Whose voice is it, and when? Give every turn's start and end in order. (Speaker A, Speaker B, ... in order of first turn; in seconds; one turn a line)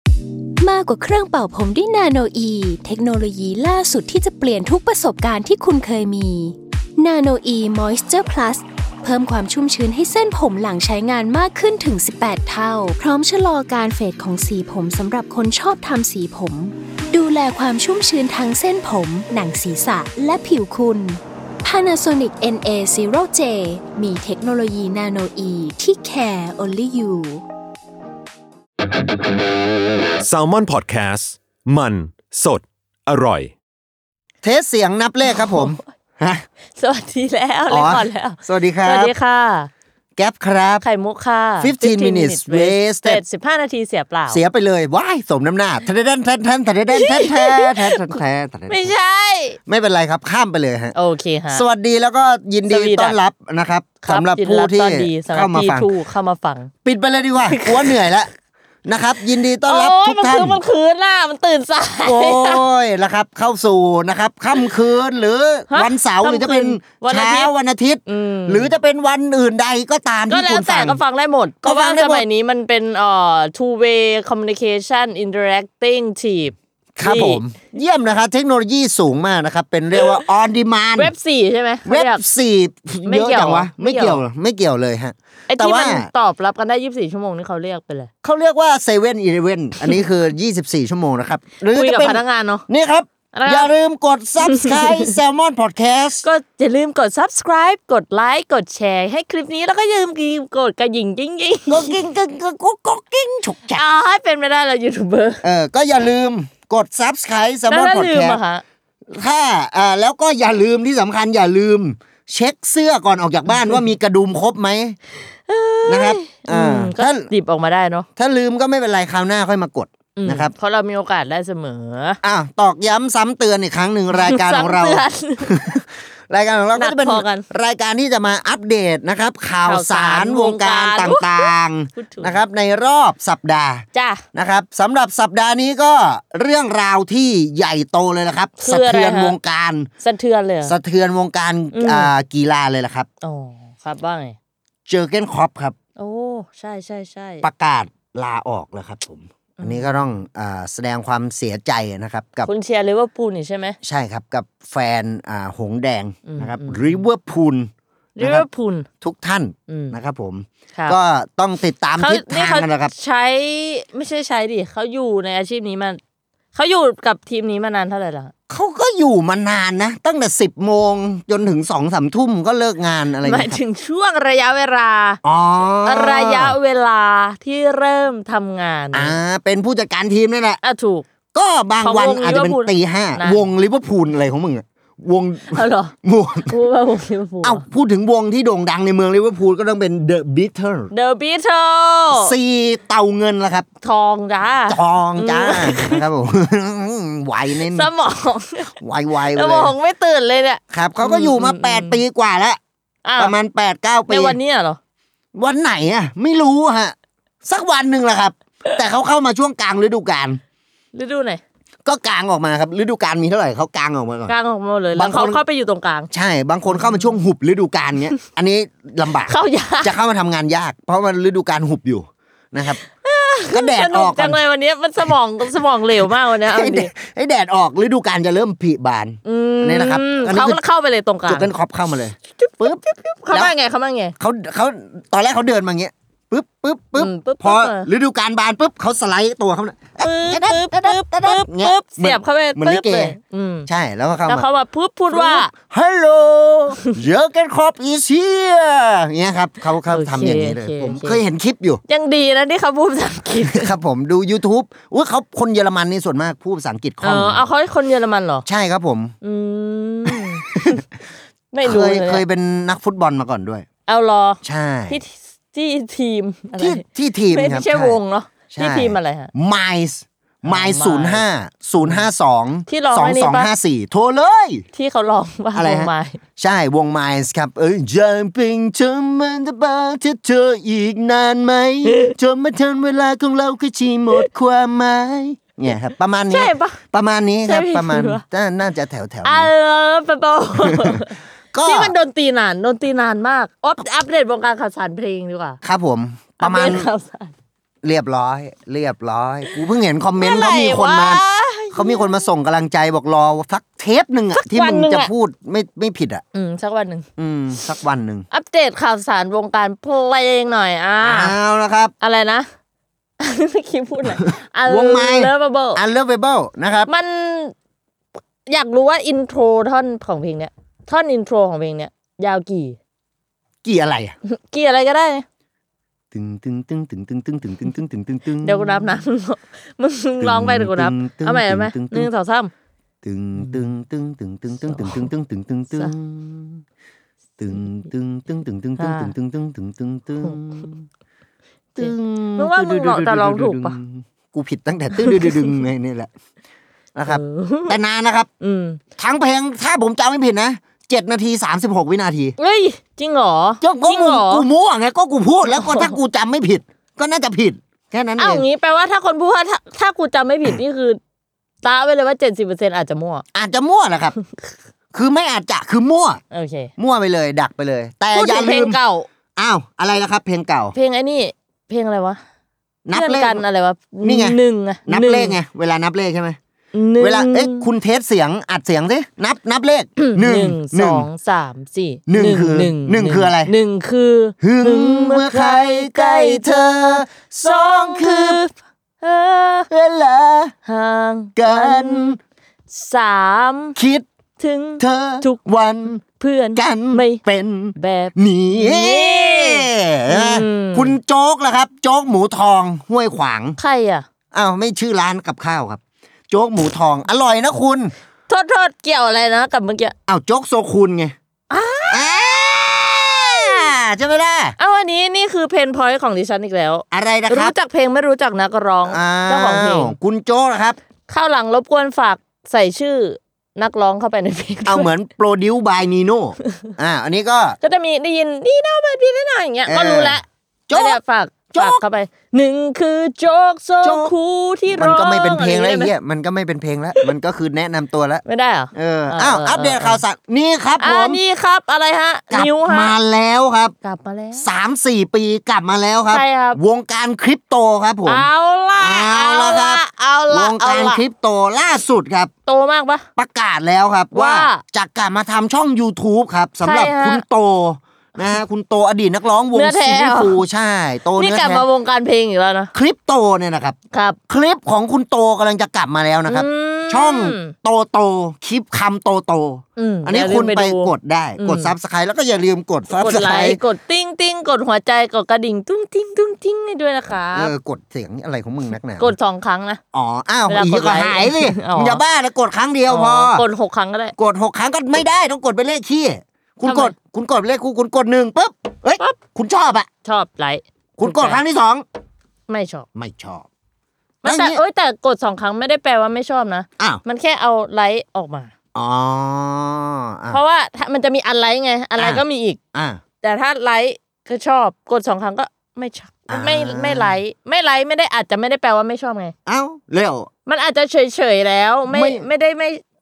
Speaker A: 0.6-27.4
Speaker B: 30.2-33.5
Speaker C: 34.4-36.4
Speaker D: 35.3-35.8
Speaker D: 36.8-39.7
Speaker C: 37.7-39.1
Speaker C: 40.2-40.9
Speaker D: 40.8-44.4
Speaker C: 41.6-43.2
Speaker C: 44.3-48.9
Speaker D: 46.9-48.1
Speaker D: 48.7-49.6
Speaker C: 49.7-50.9
Speaker D: 50.9-51.6
Speaker C: 51.5-55.9
Speaker D: 52.7-53.2
Speaker D: 54.0-56.7
Speaker C: 56.8-58.3
Speaker D: 57.4-58.0
Speaker C: 58.9-60.6
Speaker D: 59.5-62.6
Speaker C: 62.0-71.0
Speaker D: 65.7-67.5
Speaker D: 68.1-68.8
Speaker D: 70.3-77.4
Speaker C: 71.6-72.2
Speaker C: 77.0-81.1
Speaker D: 81.0-82.2
Speaker C: 81.8-86.1
Speaker D: 83.0-84.2
Speaker D: 85.5-88.1
Speaker C: 88.2-96.2
Speaker D: 91.7-92.7
Speaker D: 93.3-93.7
Speaker D: 94.4-95.1
Speaker D: 96.2-102.0
Speaker C: 101.7-103.8
Speaker D: 103.7-105.4
Speaker C: 105.4-108.4
Speaker D: 107.7-108.6
Speaker C: 109.1-115.0
Speaker D: 115.5-118.1
Speaker C: 115.8-117.3
Speaker C: 118.2-120.5
Speaker D: 120.2-122.2
Speaker C: 122.2-139.9
Speaker D: 124.1-125.8
Speaker D: 126.7-127.4
Speaker D: 129.6-132.4
Speaker D: 133.9-134.2
Speaker D: 138.6-139.4
Speaker D: 140.0-140.8
Speaker C: 140.6-143.1
Speaker D: 141.7-142.1
Speaker D: 143.2-144.3
Speaker C: 144.9-145.8
Speaker D: 146.0-147.5
Speaker C: 147.4-152.5
Speaker D: 149.6-150.0
Speaker D: 152.4-153.8
Speaker C: 153.8-158.4
Speaker D: 156.2-157.0
Speaker D: 158.2-158.9
Speaker C: 159.0-162.9
Speaker D: 159.7-160.0
Speaker D: 162.0-166.0
Speaker D: 166.5-168.3
Speaker C: 168.5-173.6
Speaker D: 173.2-175.2
Speaker C: 175.2-176.6
Speaker D: 175.8-179.2
Speaker C: 178.9-180.6
Speaker D: 180.6-181.1
Speaker C: 181.3-186.6
Speaker D: 181.8-183.4
Speaker D: 185.5-185.9
Speaker D: 186.4-187.6
Speaker C: 187.4-190.9
Speaker D: 190.9-192.3
Speaker C: 192.1-193.7
Speaker D: 193.8-196.0
Speaker C: 194.7-197.9
Speaker D: 197.5-198.7
Speaker C: 198.8-199.7
Speaker D: 199.3-202.0
Speaker C: 200.7-202.6
Speaker D: 203.0-203.3
Speaker C: 203.2-204.4
Speaker D: 204.1-204.8
Speaker C: 205.3-210.4
Speaker D: 210.9-211.4
Speaker C: 211.8-214.3
Speaker D: 214.3-216.1
Speaker C: 214.9-215.4
Speaker C: 216.1-222.8
Speaker D: 216.7-217.2
Speaker D: 219.2-219.9
Speaker D: 222.9-226.9
Speaker C: 223.5-224.4
Speaker C: 226.1-230.6
Speaker D: 229.2-231.5
Speaker C: 231.2-233.5
Speaker D: 232.3-234.1
Speaker C: 234.2-244.5
Speaker D: 236.9-237.9
Speaker D: 240.0-243.7
Speaker D: 244.3-245.5
Speaker C: 245.1-251.8
Speaker D: 249.9-251.2
Speaker D: 251.9-253.7
Speaker C: 253.4-257.5
Speaker D: 257.0-258.4
Speaker C: 258.4-259.1
Speaker D: 259.2-260.8
Speaker C: 260.1-260.8
Speaker D: 261.5-262.2
Speaker C: 261.6-263.6
Speaker D: 263.9-269.3
Speaker C: 264.4-265.0
Speaker C: 266.6-268.0
Speaker C: 268.5-274.6
Speaker D: 270.4-271.2
Speaker D: 271.8-272.1
Speaker D: 272.7-273.5
Speaker D: 274.7-276.2
Speaker C: 275.5-289.5
Speaker D: 281.8-282.1
Speaker D: 286.3-286.8
Speaker D: 287.4-288.2
Speaker D: 289.2-295.6
Speaker C: 290.6-291.0
Speaker C: 291.5-291.9
Speaker C: 295.6-296.9
Speaker D: 296.4-297.3
Speaker C: 297.8-306.2
Speaker D: 300.2-302.2
Speaker D: 304.3-305.1
Speaker D: 306.3-307.1
Speaker C: 307.2-308.2
Speaker D: 308.3-311.4
Speaker C: 311.0-311.9
Speaker D: 312.0-312.5
Speaker D: 313.2-315.8
Speaker C: 314.1-316.9
Speaker D: 316.9-317.5
Speaker D: 318.4-322.8
Speaker C: 323.6-324.1
Speaker D: 324.2-325.2
Speaker C: 326.1-329.0
Speaker D: 328.4-332.5
Speaker C: 330.2-332.1
Speaker C: 333.0-336.6
Speaker D: 333.4-333.6
Speaker D: 334.7-335.1
Speaker C: 337.4-340.8
Speaker D: 338.8-339.1
Speaker C: 341.7-346.1
Speaker D: 341.8-343.8
Speaker D: 344.9-345.5
Speaker C: 346.9-348.3
Speaker D: 347.1-347.8
Speaker D: 348.4-348.8
Speaker C: 349.0-352.4
Speaker D: 352.4-354.5
Speaker C: 353.6-358.4
Speaker D: 355.5-356.0
Speaker D: 358.2-361.0
Speaker D: 361.6-363.2
Speaker C: 363.3-364.1
Speaker C: 364.9-366.2
Speaker D: 366.3-366.7
Speaker C: 366.8-368.8
Speaker D: 368.1-369.1
Speaker C: 369.4-370.7
Speaker D: 370.7-372.2
Speaker C: 372.8-373.4
Speaker D: 372.9-375.4
Speaker C: 374.0-376.4
Speaker D: 376.7-377.7
Speaker C: 377.0-381.1
Speaker D: 380.0-389.7
Speaker C: 382.1-383.5
Speaker C: 384.4-388.4
Speaker C: 389.7-390.5
Speaker D: 390.6-392.2
Speaker C: 391.4-392.2
Speaker D: 392.7-393.8
Speaker C: 393.8-394.1
Speaker D: 394.4-395.4
Speaker C: 394.8-396.0
Speaker D: 396.0-397.2
Speaker C: 396.5-403.6
Speaker D: 397.8-401.0
Speaker D: 403.6-404.1
Speaker C: 404.3-407.9
Speaker D: 408.3-409.9
Speaker C: 410.1-411.1
Speaker D: 411.5-413.7
Speaker C: 411.9-414.5
Speaker D: 414.6-420.0
Speaker C: 416.9-417.5
Speaker C: 418.8-420.8
Speaker D: 421.1-424.9
Speaker C: 424.6-427.6
Speaker D: 427.6-435.9
Speaker C: 429.6-431.0
Speaker C: 431.5-431.8
Speaker C: 433.8-434.1
Speaker C: 434.7-438.2
Speaker D: 438.2-440.0
Speaker C: 438.7-441.2
Speaker D: 440.8-442.9
Speaker C: 442.3-443.7
Speaker D: 443.8-444.5
Speaker C: 444.4-452.3
Speaker D: 446.1-446.6
Speaker D: 448.0-451.0
Speaker D: 452.4-453.1
Speaker C: 453.2-461.7
Speaker D: 454.1-454.6
Speaker D: 456.6-457.2
Speaker D: 459.5-460.4
Speaker D: 461.1-462.7
Speaker C: 462.7-463.8
Speaker D: 463.9-464.2
Speaker C: 464.3-473.6
Speaker D: 466.3-467.5
Speaker D: 469.8-471.7
Speaker D: 472.9-477.5
Speaker C: 477.3-479.1
Speaker D: 479.0-479.8
Speaker C: 479.9-483.4
Speaker D: 480.5-482.0
Speaker D: 482.9-484.1
Speaker C: 484.1-489.9
Speaker D: 486.6-486.9
Speaker D: 490.0-491.4
Speaker C: 491.0-491.8
Speaker D: 492.5-492.9
Speaker C: 492.9-493.5
Speaker C: 494.2-494.6
Speaker D: 494.2-498.5
Speaker C: 498.7-500.4
Speaker D: 500.3-502.6
Speaker C: 502.0-503.0
Speaker D: 503.2-509.3
Speaker C: 506.3-507.2
Speaker C: 509.4-510.3
Speaker D: 510.4-512.8
Speaker C: 511.9-512.3